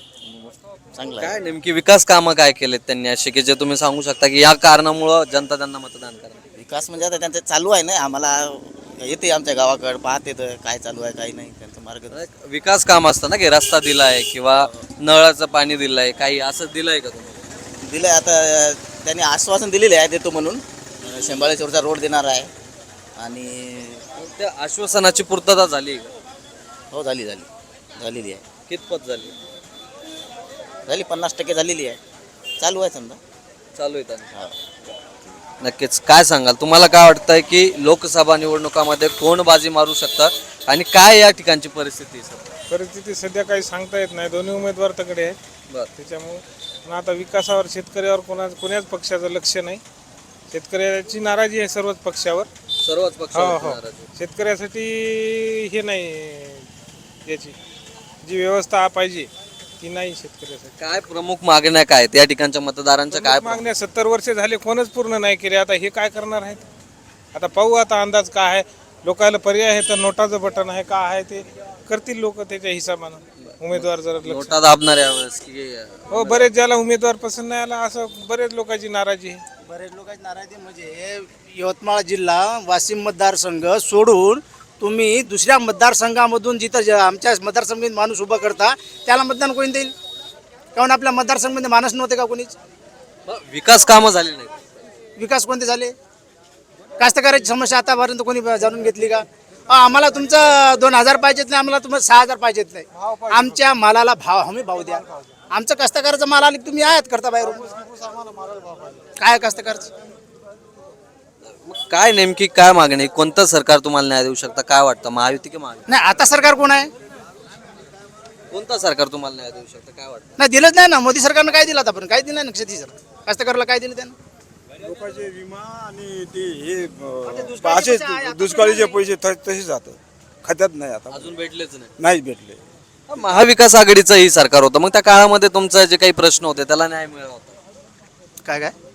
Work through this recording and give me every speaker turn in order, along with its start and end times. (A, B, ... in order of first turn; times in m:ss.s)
0:00.2-0:01.4 A
0:01.2-0:06.4 B
0:06.6-0:12.2 A
0:12.1-0:17.4 B
0:17.8-0:22.5 A
0:23.2-0:24.0 A
0:24.2-0:26.1 B
0:26.9-0:28.4 A
0:28.7-0:29.3 B
0:30.9-0:32.0 A
0:32.6-0:33.2 A
0:33.8-0:34.2 B
0:35.6-0:42.5 B
0:42.7-0:45.4 C
0:46.0-0:49.8 C
0:50.5-0:52.5 C
0:52.8-0:54.0 B
0:53.3-0:56.6 C
0:57.2-0:57.5 C
0:58.2-0:59.3 C
0:59.8-1:00.7 C
1:00.8-1:03.7 B
1:03.1-1:06.6 C
1:07.3-1:14.5 C
1:13.4-1:16.5 B
1:16.1-1:19.4 C
1:19.7-1:29.9 D
1:30.7-1:32.5 D
1:33.2-1:34.6 B
1:35.2-1:35.9 D
1:37.0-1:47.7 D
1:49.2-1:49.9 D
1:51.5-1:55.8 B
1:55.9-1:56.9 D
1:58.5-2:00.3 B
2:00.4-2:04.1 D
2:04.8-2:11.3 E
2:07.2-2:09.0 D
2:11.1-2:11.9 B
2:12.0-2:12.6 E
2:13.1-2:17.6 B
2:18.4-2:18.7 D